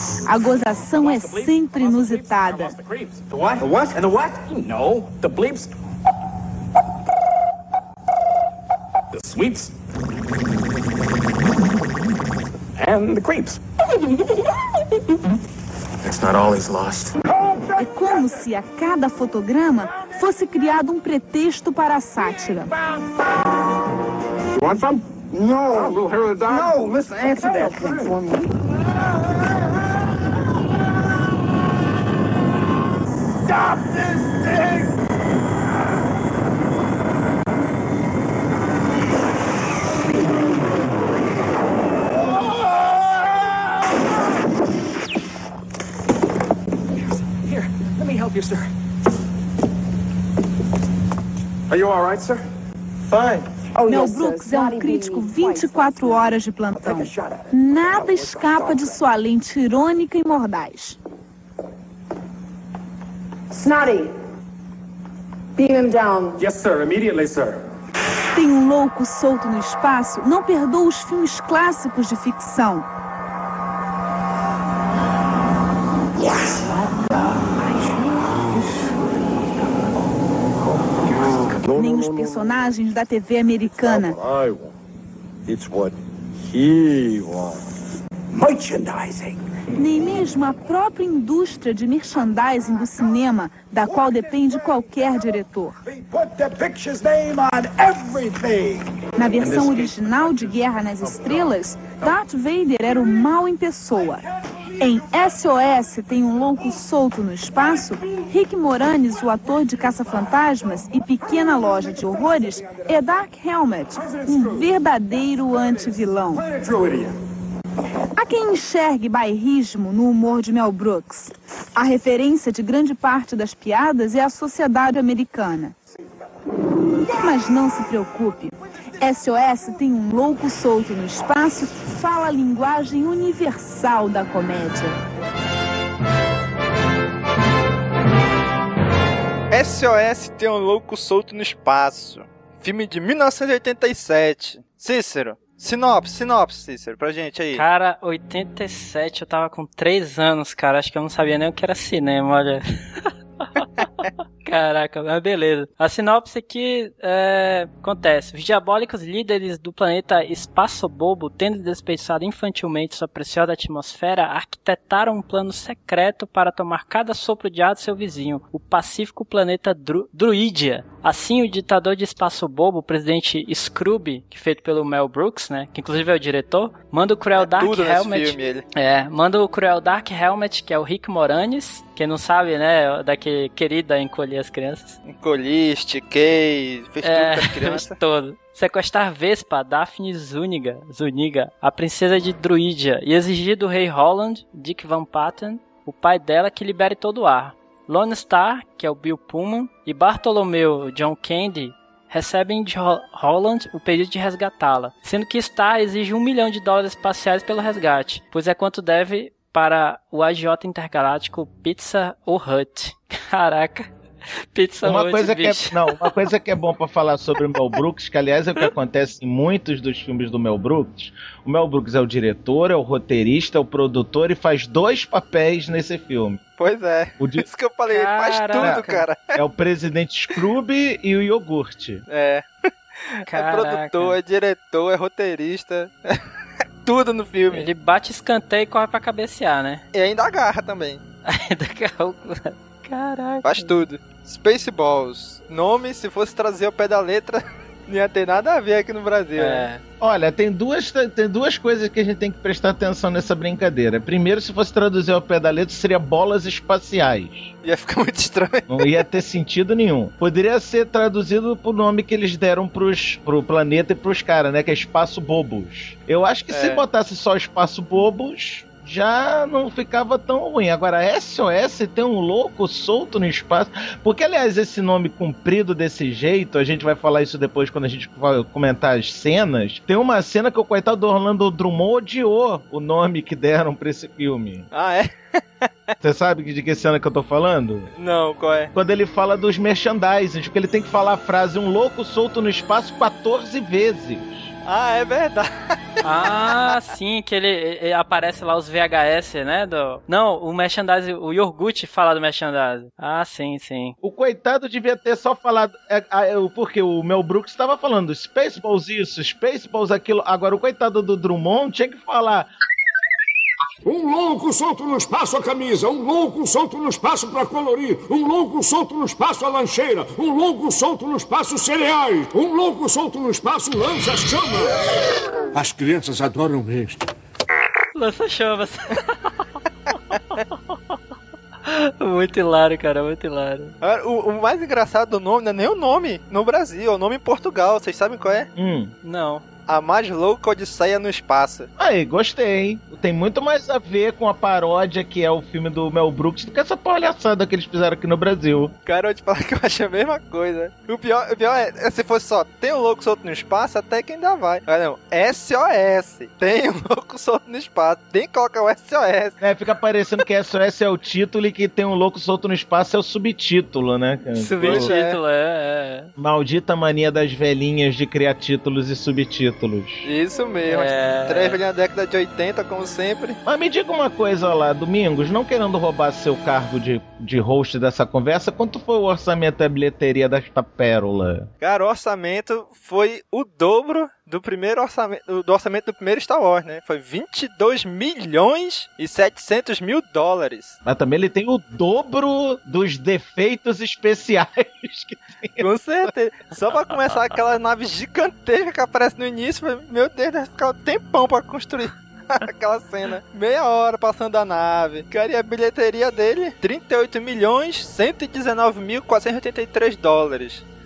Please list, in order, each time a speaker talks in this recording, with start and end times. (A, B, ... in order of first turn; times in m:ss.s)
0:00.2-0:02.8 A
0:17.8-0:22.8 A
0:53.8-0:56.1 B
0:53.9-1:01.0 A
1:03.5-1:04.1 B
1:05.6-1:06.5 B
1:08.3-1:12.9 A
1:21.6-1:24.2 A
1:29.8-1:35.8 A
1:39.2-1:44.3 A
1:44.8-1:56.5 A
1:58.2-2:05.8 A
2:07.1-2:15.0 A
2:19.5-2:27.6 C
2:27.5-3:05.0 D
2:57.4-2:58.6 C
3:05.0-3:08.0 C
3:07.0-3:33.9 D
3:34.5-3:36.1 D
3:34.8-3:46.4 E
3:46.6-3:49.4 C
3:47.2-3:47.4 E
3:47.9-3:49.0 D
3:48.6-3:52.0 E
3:52.1-3:52.5 C
3:53.3-3:54.2 D
3:53.3-3:56.2 C
3:56.8-3:57.7 C
3:57.5-3:59.8 D
3:59.9-4:01.0 C
4:01.3-4:03.8 D
4:03.4-4:09.7 C
4:09.4-4:09.8 D
4:10.0-4:17.5 E
4:17.6-4:19.0 C
4:18.7-4:44.7 E
4:26.5-4:26.8 C
4:44.7-4:45.7 C
4:46.0-4:47.9 E
4:48.0-4:48.7 C
4:48.7-4:54.5 E
4:54.7-4:55.5 C
4:56.0-5:04.0 D
5:04.0-5:12.5 E
5:13.8-5:24.8 F
5:25.5-5:27.0 F
5:28.0-5:29.4 D
5:31.7-5:33.7 D
5:33.8-5:38.5 C
5:38.6-5:38.9 E
5:39.0-5:39.4 D
5:39.7-5:41.7 C
5:41.8-5:48.7 E
5:48.8-5:59.4 C
5:59.4-6:04.9 E
6:04.4-6:06.1 D
6:04.6-6:05.2 C
6:06.2-6:10.1 E
6:10.0-6:13.4 C
6:10.7-6:11.6 D
6:13.4-6:21.5 E
6:21.6-6:30.8 C
6:30.8-6:35.6 E
6:35.6-6:50.6 C